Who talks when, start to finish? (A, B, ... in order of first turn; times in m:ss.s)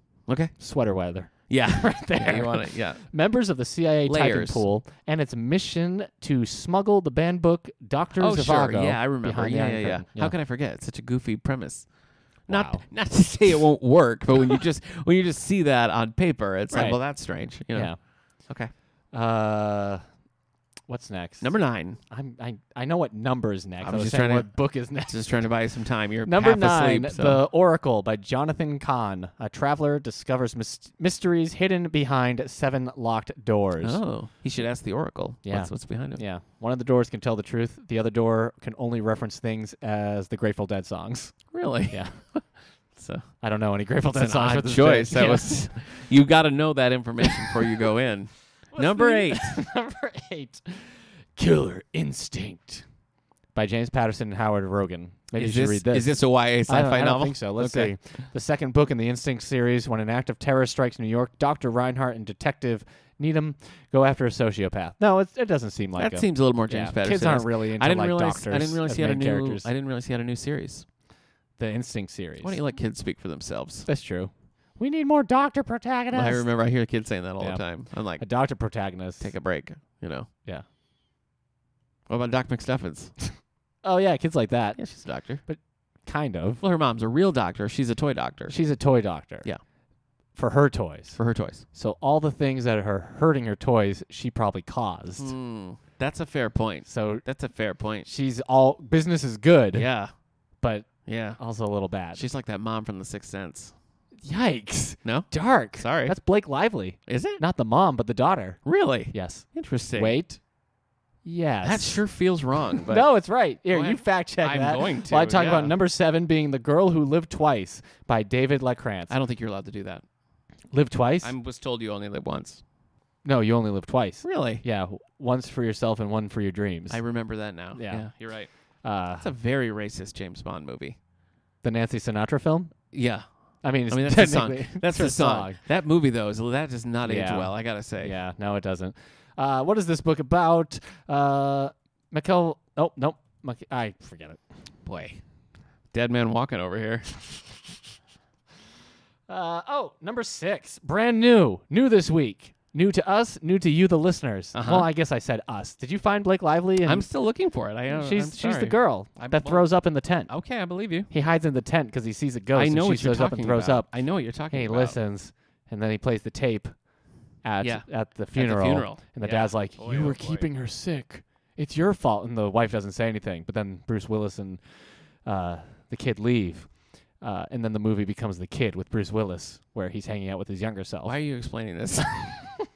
0:00.3-0:00.5 A
0:00.6-0:10.3 B
0:01.5-0:03.0 A
0:04.1-0:04.6 A
0:08.2-0:11.9 A
0:12.4-0:18.7 A
0:12.5-0:12.8 B
0:16.7-0:17.0 B
0:17.7-0:18.0 B
0:19.1-0:20.0 B
0:20.9-0:21.5 B
0:21.4-0:22.0 A
0:22.1-0:25.3 B
0:23.8-0:24.5 A
0:25.0-0:27.4 A
0:26.2-0:34.0 B
0:33.8-0:36.2 A
0:35.4-0:42.2 B
0:41.5-0:43.3 A
0:43.4-0:45.7 B
0:44.1-0:49.6 A
0:47.2-0:47.5 B
0:48.7-0:52.8 B
0:53.5-1:09.7 B
0:55.3-0:57.9 A
1:06.0-1:10.8 A
1:11.6-1:12.6 B
1:12.4-1:13.9 A
1:13.8-1:16.5 B
1:16.1-1:18.2 A
1:17.4-1:17.6 B
1:18.2-1:19.3 B
1:19.2-1:20.3 A
1:22.1-1:23.1 A
1:23.8-1:24.9 B
1:24.8-1:25.4 A
1:25.4-1:26.6 B
1:26.6-1:28.6 A
1:28.5-1:29.5 B
1:30.3-1:31.2 B
1:31.2-1:31.6 A
1:31.7-1:35.3 B
1:35.2-1:38.1 A
1:36.8-1:37.2 B
1:38.0-1:39.9 B
1:39.7-1:40.1 A
1:40.6-1:42.2 B
1:41.0-1:41.4 A
1:42.1-1:43.7 A
1:44.2-1:48.6 B
1:45.0-1:46.2 A
1:47.1-1:47.4 A
1:48.6-1:50.2 A
1:49.1-1:50.4 B
1:51.2-1:52.0 B
1:51.6-1:53.1 A
1:52.8-1:59.1 B
1:53.7-1:55.7 A
1:59.1-2:00.0 A
2:00.7-2:01.3 B
2:01.2-2:02.6 A
2:03.2-2:07.0 B
2:04.2-2:04.6 A
2:06.9-2:08.5 A
2:07.7-2:08.1 B
2:08.8-2:09.3 B
2:09.2-2:11.0 A
2:11.6-2:12.7 B
2:12.9-2:13.2 A
2:13.6-2:15.6 B
2:13.9-2:18.2 A
2:17.0-2:24.4 B
2:24.8-2:25.2 A
2:25.9-2:27.2 A
2:29.3-2:37.1 B
2:34.5-2:34.9 A
2:36.8-2:39.6 A
2:37.9-2:40.3 B
2:40.3-2:41.1 A
2:41.1-2:43.9 B
2:42.5-2:45.0 A
2:44.5-2:46.7 B
2:47.4-2:54.6 B
2:47.6-2:50.5 A
2:55.2-2:56.7 B
2:57.2-3:01.2 B
3:01.0-3:02.3 A
3:02.2-3:02.5 B